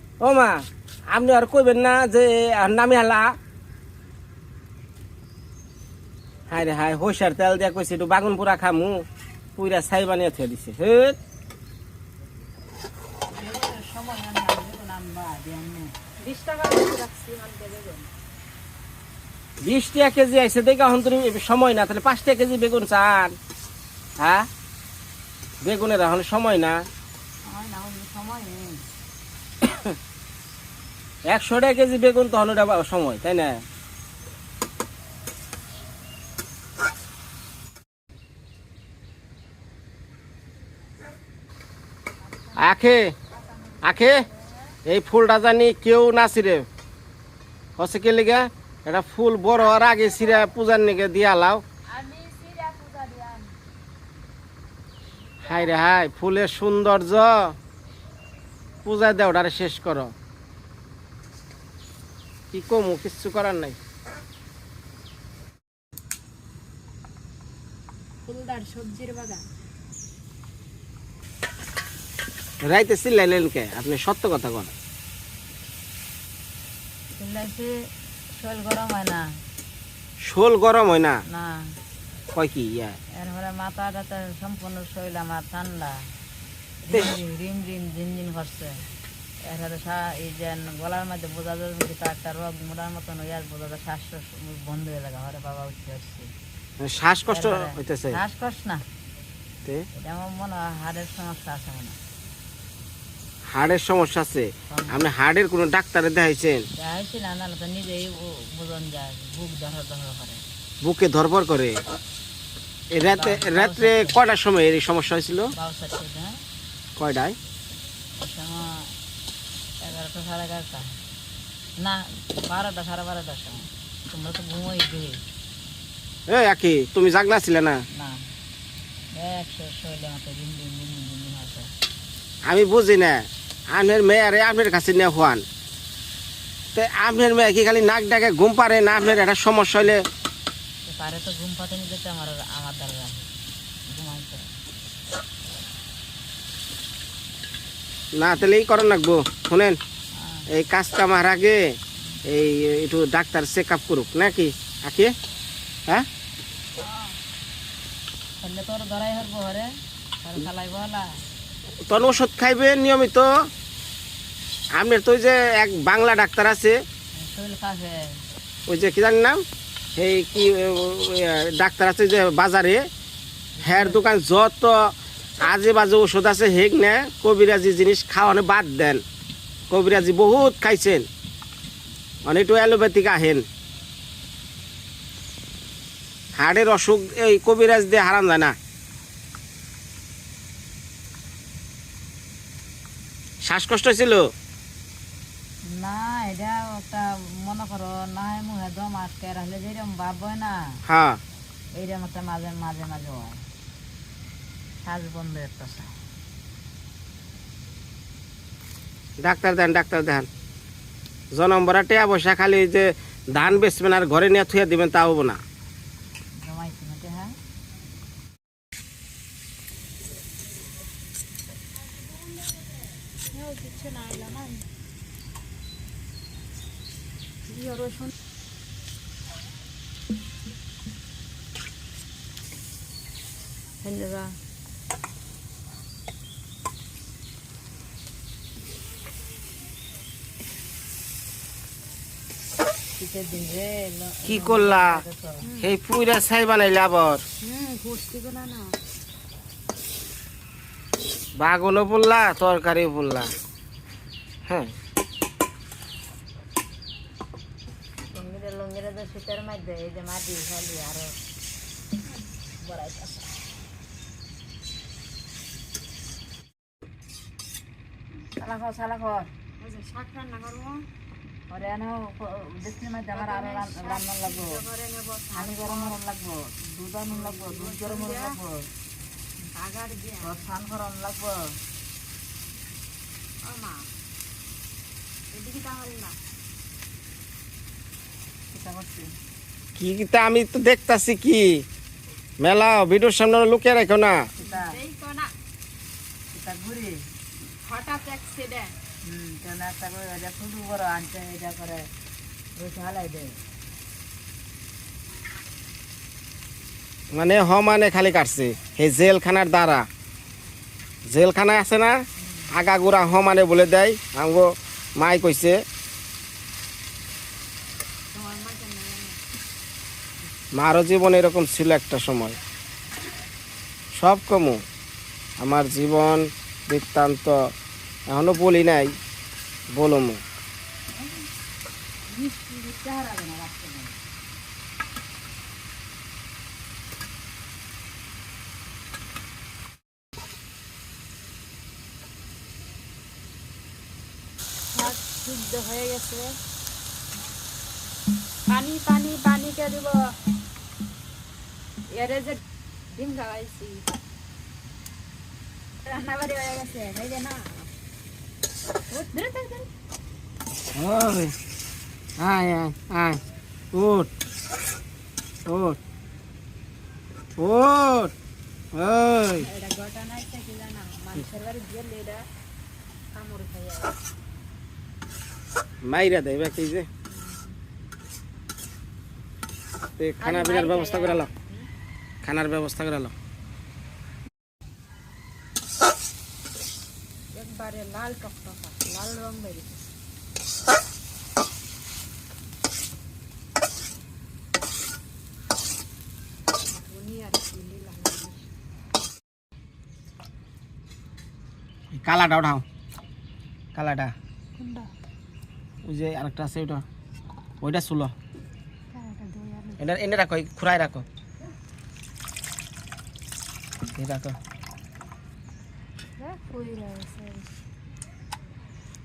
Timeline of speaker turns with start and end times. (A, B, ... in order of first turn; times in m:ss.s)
0:00.2-0:03.4 A
0:06.5-0:09.0 A
0:09.6-0:11.2 A
0:13.3-0:15.9 B
0:16.2-0:18.1 C
0:19.6-0:23.4 A
0:24.2-0:24.5 A
0:25.6-0:26.8 A
0:27.4-0:28.8 B
0:29.6-0:30.0 A
0:31.3-0:33.6 A
0:42.3-0:42.7 C
0:42.6-0:43.1 A
0:43.3-0:44.7 C
0:43.8-0:44.2 A
0:44.8-0:46.6 A
0:47.8-0:51.6 A
0:51.9-0:53.6 C
0:55.4-0:57.6 A
0:58.8-1:00.1 A
1:02.5-1:03.8 A
1:08.2-1:09.4 C
1:12.6-1:14.7 A
1:17.2-1:19.4 B
1:20.2-1:21.2 A
1:21.3-1:21.7 B
1:22.3-1:23.0 A
1:23.1-1:26.1 B
1:26.8-1:28.8 B
1:29.4-1:36.3 B
1:36.8-1:38.2 A
1:37.3-1:38.8 B
1:39.9-1:42.0 B
1:43.5-1:46.7 A
1:44.7-1:45.0 B
1:46.8-1:50.4 B
1:50.8-1:51.8 A
1:52.9-1:55.5 A
1:53.0-1:54.2 B
1:55.5-1:56.4 B
1:57.0-1:57.4 A
1:58.2-1:58.9 B
1:59.8-2:01.0 B
2:01.8-2:05.2 B
2:06.3-2:07.8 A
2:07.9-2:08.3 B
2:09.1-2:11.7 B
2:12.4-2:15.4 A
2:16.7-2:20.1 A
2:20.8-2:23.3 B
2:23.8-2:24.5 B
2:28.2-2:29.8 A
2:30.1-2:30.5 B
2:30.5-2:35.1 A
2:36.8-2:37.1 C
2:38.4-2:41.2 B
2:41.9-2:43.5 A
2:44.7-2:46.8 A
2:47.2-2:48.2 B
2:48.7-2:49.4 A
2:50.0-2:52.8 A
2:53.6-2:54.0 B
2:53.6-2:59.0 A
2:59.7-3:01.1 A
3:02.2-3:03.4 A
3:06.3-3:08.6 A
3:13.4-3:14.3 A
3:15.6-3:20.8 B
3:20.8-3:21.2 A
3:21.7-3:23.4 B
3:24.8-3:25.9 B
3:29.2-3:30.3 A
3:31.3-3:35.4 A
3:36.4-3:37.4 B
3:43.3-3:44.6 C
3:47.5-3:48.1 C
3:53.8-3:54.4 B
4:03.0-4:05.4 B
4:04.2-4:05.0 A
4:05.4-4:05.7 C
4:05.6-4:07.2 A
4:07.4-4:08.8 C
4:11.4-4:13.3 A
4:14.5-4:14.7 A
4:18.1-4:21.2 B
4:22.6-4:23.3 B
4:28.4-4:29.3 B
4:29.6-4:30.8 C
4:31.5-4:34.6 B
4:33.1-4:36.0 C
4:35.3-4:38.6 B
4:37.1-4:38.3 C
4:39.5-4:40.4 C
4:40.2-4:41.6 B
4:43.4-4:43.9 C
4:45.3-4:46.2 C
4:48.5-4:49.1 B
4:49.8-4:51.6 A
4:52.4-4:54.3 A
4:54.4-4:55.3 C
4:54.4-4:54.7 B
4:56.3-4:57.0 B
4:57.6-4:58.8 C
4:59.0-5:01.9 B
5:02.6-5:03.4 B
5:07.1-5:09.9 A
5:11.1-5:15.6 A
5:18.1-5:19.2 C
5:20.5-5:22.4 A
5:23.9-5:24.6 A
5:25.4-5:27.5 A
5:28.1-5:29.0 A
5:29.7-5:30.2 A
5:32.1-5:34.0 B
5:44.7-5:46.4 C
5:48.5-5:50.1 C
5:51.9-5:53.8 C
5:55.8-5:57.7 C
5:58.9-5:59.7 C
6:00.8-6:01.3 A
6:02.2-6:03.2 A
6:03.7-6:04.1 A
6:05.4-6:05.8 A
6:07.4-6:08.1 A
6:08.7-6:09.5 A
6:09.4-6:12.2 C
6:13.1-6:14.0 C
6:15.8-6:16.9 A
6:17.1-6:17.6 C
6:20.0-6:21.3 A
6:20.2-6:21.6 C
6:22.2-6:23.1 A
6:27.3-6:29.8 C
6:36.7-6:38.5 C
6:41.9-6:42.6 A
6:43.7-6:44.1 A
6:44.6-6:44.9 C
6:45.8-6:46.8 A
6:47.6-6:48.1 A
6:48.9-6:49.8 C
6:49.8-6:51.0 A
6:53.9-6:54.4 A
6:56.2-6:57.5 C